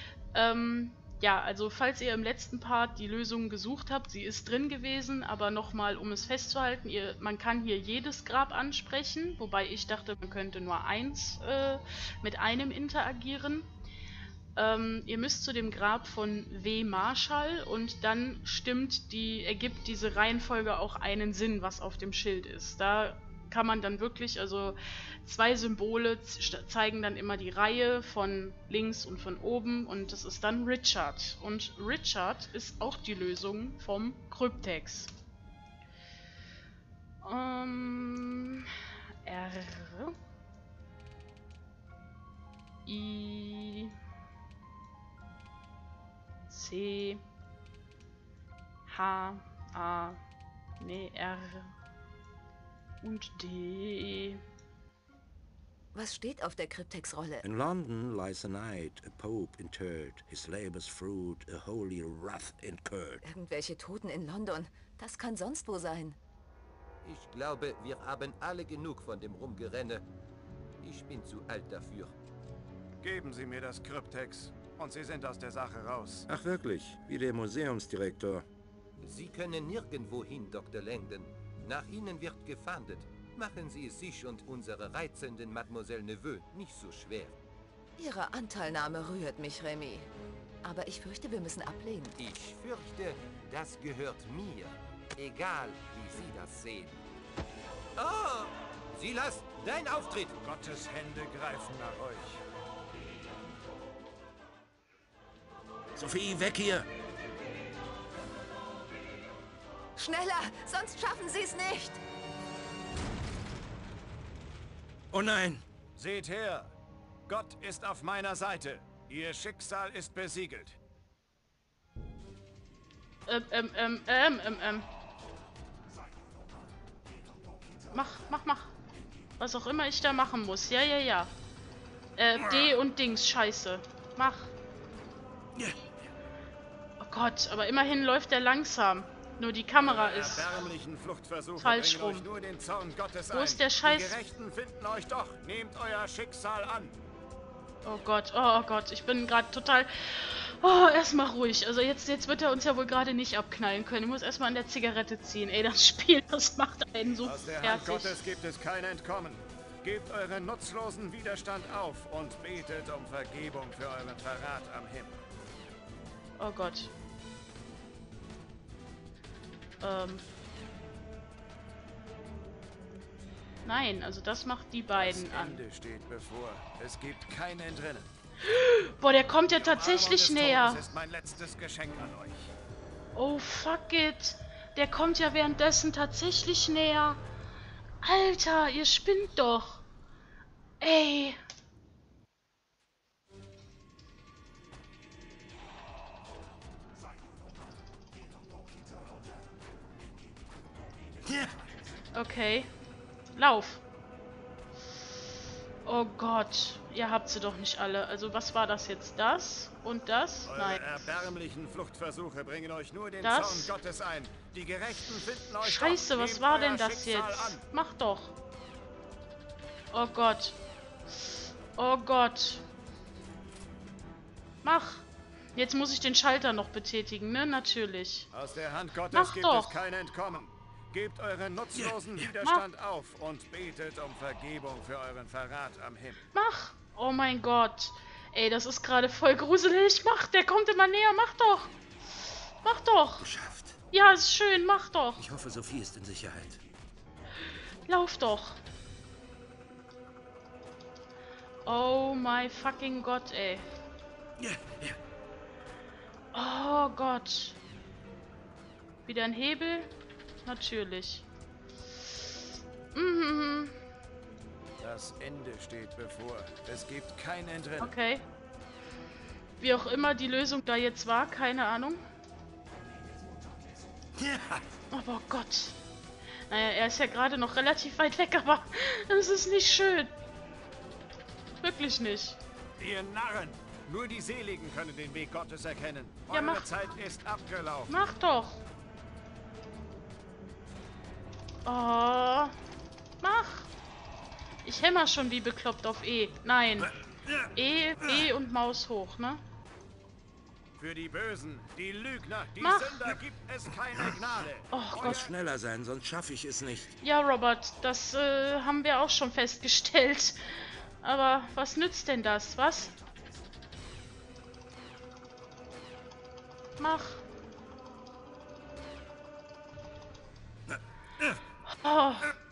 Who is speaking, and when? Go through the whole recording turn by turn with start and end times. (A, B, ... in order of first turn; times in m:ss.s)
0:00.3-0:13.7 A
0:14.5-0:35.1 A
0:37.2-0:38.7 A
0:39.2-0:40.1 A
0:42.8-0:43.9 A
0:46.5-0:47.2 A
0:48.9-0:50.2 A
0:50.8-0:51.7 A
0:53.0-0:54.4 A
0:55.9-0:57.4 B
0:57.4-1:03.2 C
1:03.2-1:06.2 B
1:07.0-1:10.0 D
1:10.8-1:12.2 D
1:13.0-1:16.3 E
1:16.3-1:18.4 C
1:19.0-1:27.4 D
1:28.0-1:30.1 B
1:30.6-1:32.2 B
1:32.2-1:37.0 D
1:38.0-1:40.3 D
1:40.4-1:42.4 E
1:46.0-1:46.9 C
1:50.0-1:52.0 B
1:55.1-1:55.6 C
1:56.0-1:56.7 E
1:57.3-2:00.8 E
2:03.3-2:04.9 A
2:07.9-2:08.7 A
2:09.4-2:11.3 A
2:12.2-2:14.5 A
2:17.0-2:20.6 A
2:19.8-2:27.0 E
2:21.6-2:22.3 A
2:23.3-2:24.2 A
2:27.8-2:38.2 A
2:37.2-2:45.2 E
2:46.4-2:46.9 A
2:49.8-2:50.2 A
2:53.6-2:55.6 A
2:55.0-2:58.1 E
2:58.4-3:00.8 A
2:59.5-3:02.5 E
3:03.1-3:07.2 A
3:08.0-3:09.8 A
3:10.8-3:11.4 A
3:22.1-3:22.7 A
3:23.3-3:23.8 A
3:25.8-3:31.0 A
3:30.5-3:37.6 E
3:33.2-3:33.7 A
3:35.6-3:38.3 A
3:39.9-3:40.6 A
3:41.7-3:42.6 A
3:44.6-3:48.3 A
3:48.3-3:56.2 E
3:49.1-3:49.8 A
3:51.8-3:52.0 C
3:56.3-4:01.7 A
4:02.6-4:03.3 A
4:03.2-4:03.8 C
4:03.9-4:05.2 A
4:05.2-4:06.6 C
4:07.9-4:08.6 A
4:11.6-4:13.6 A
4:14.4-4:15.0 C
4:16.3-4:17.6 A
4:19.0-4:19.9 A
4:20.4-4:21.3 A
4:22.9-4:23.8 A
4:24.8-4:27.9 E
4:27.8-4:28.2 A
4:29.6-4:32.0 A
4:34.2-4:34.6 E
4:34.9-4:35.8 A
4:36.5-4:40.1 A
4:41.6-4:42.4 A
4:42.8-4:47.9 E
4:46.3-4:46.7 A
4:47.9-4:48.6 A
4:51.6-4:52.5 A
4:53.2-4:53.7 A
4:54.6-4:56.9 A
4:57.5-4:59.4 A
5:00.8-5:05.3 E
5:02.6-5:03.1 A
5:04.7-5:05.2 A
5:05.0-5:06.9 C
5:07.0-5:10.4 A
5:11.0-5:12.9 A
5:16.8-5:17.2 A
5:21.6-5:22.4 A